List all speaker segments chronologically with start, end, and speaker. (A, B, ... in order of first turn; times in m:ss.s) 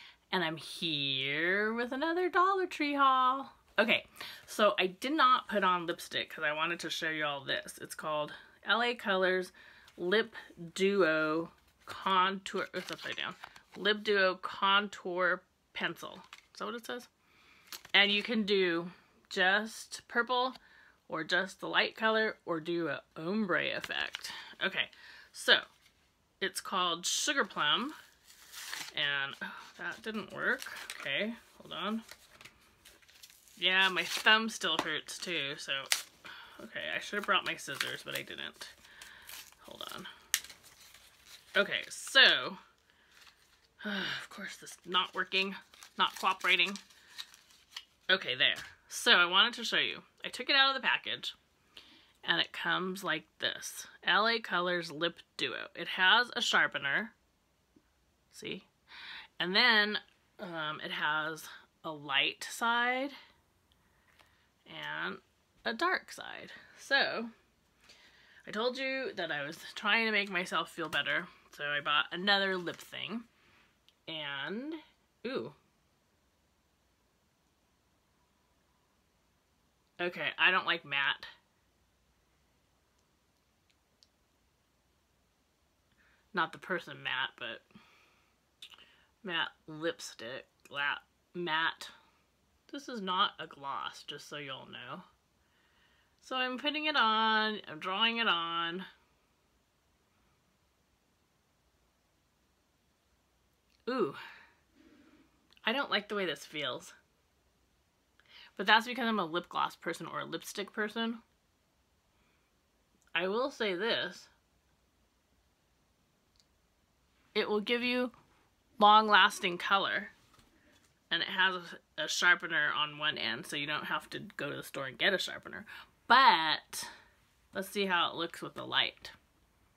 0:00.3-0:17.1 A
0:17.9-0:25.6 A
0:26.4-0:28.0 A
0:28.9-0:32.0 A
0:33.6-0:35.9 A
0:36.6-0:38.7 A
0:39.6-0:40.1 A
0:41.5-0:42.6 A
0:43.8-0:46.8 A
0:48.1-0:51.3 A
0:52.2-0:57.1 A
0:58.3-0:58.7 A
0:59.4-1:03.1 A
1:04.6-1:07.3 A
1:08.4-1:13.3 A
1:14.1-1:15.6 A
1:20.0-1:21.3 A
1:26.3-1:27.6 A
1:29.2-1:31.9 A
1:32.7-1:35.0 A
1:36.2-1:38.9 A
1:43.9-1:44.2 A
1:45.6-1:46.9 A
1:48.5-1:51.2 A
1:53.1-1:54.3 A
1:57.3-1:58.1 A
1:58.8-2:00.1 A
2:01.1-2:06.9 A
2:07.5-2:09.2 A